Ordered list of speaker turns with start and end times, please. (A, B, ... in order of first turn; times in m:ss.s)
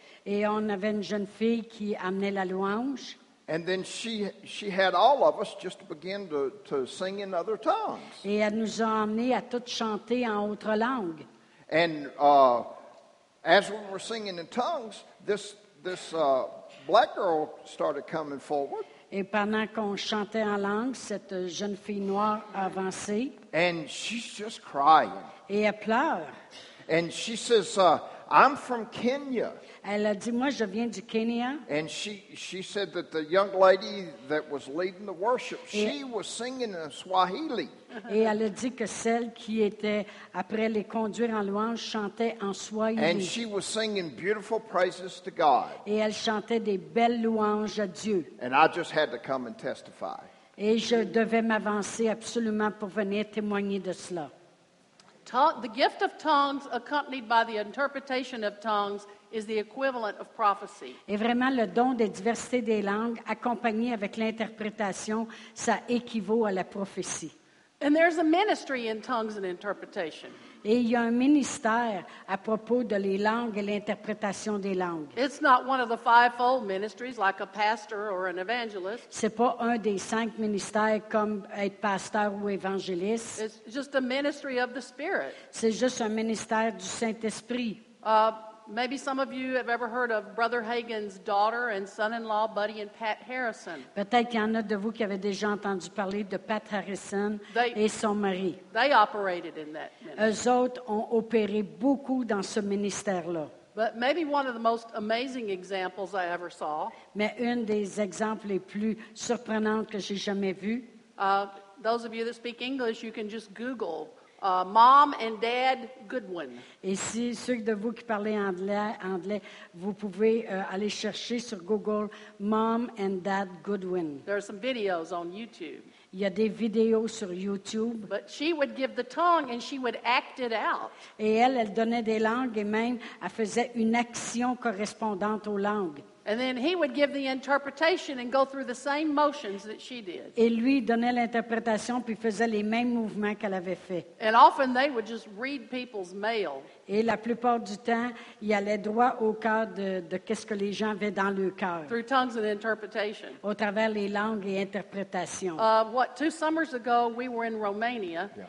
0:00.2-0:03.2 A
0:03.5-0:08.2 B
0:08.2-0:11.2 A
0:11.7-0:12.7 B
0:13.4-0:18.9 B
0:19.1-0:23.4 A
0:23.5-0:25.3 B
0:25.5-0:26.3 A
0:26.9-0:29.6 B
0:29.8-0:31.6 A
0:31.7-0:37.7 B
0:38.1-0:43.3 A
0:43.0-0:45.8 B
0:45.8-0:48.3 A
0:48.4-0:50.3 B
0:50.6-0:54.3 A
0:55.2-1:01.0 C
1:01.1-1:07.3 A
1:07.8-1:10.4 C
1:10.6-1:15.2 A
1:15.2-1:19.1 C
1:19.1-1:23.4 A
1:23.4-1:25.4 C
1:25.5-1:27.8 A
1:28.0-1:33.9 C
1:34.0-1:38.6 A
1:37.5-1:37.8 C
1:38.7-1:40.3 C
1:40.2-1:43.5 A
1:43.8-1:47.0 C
1:47.1-1:50.9 A
1:51.2-1:56.6 C
1:56.8-2:04.2 A
2:04.2-2:05.9 C
2:06.1-2:08.1 A
2:08.1-2:11.0 C
2:11.2-2:16.0 A
2:16.2-2:20.4 C
2:20.4-2:24.1 A
2:24.2-2:26.7 C
2:26.9-2:32.0 A
2:31.9-2:33.4 C
2:33.4-2:35.7 A
2:35.6-2:38.3 C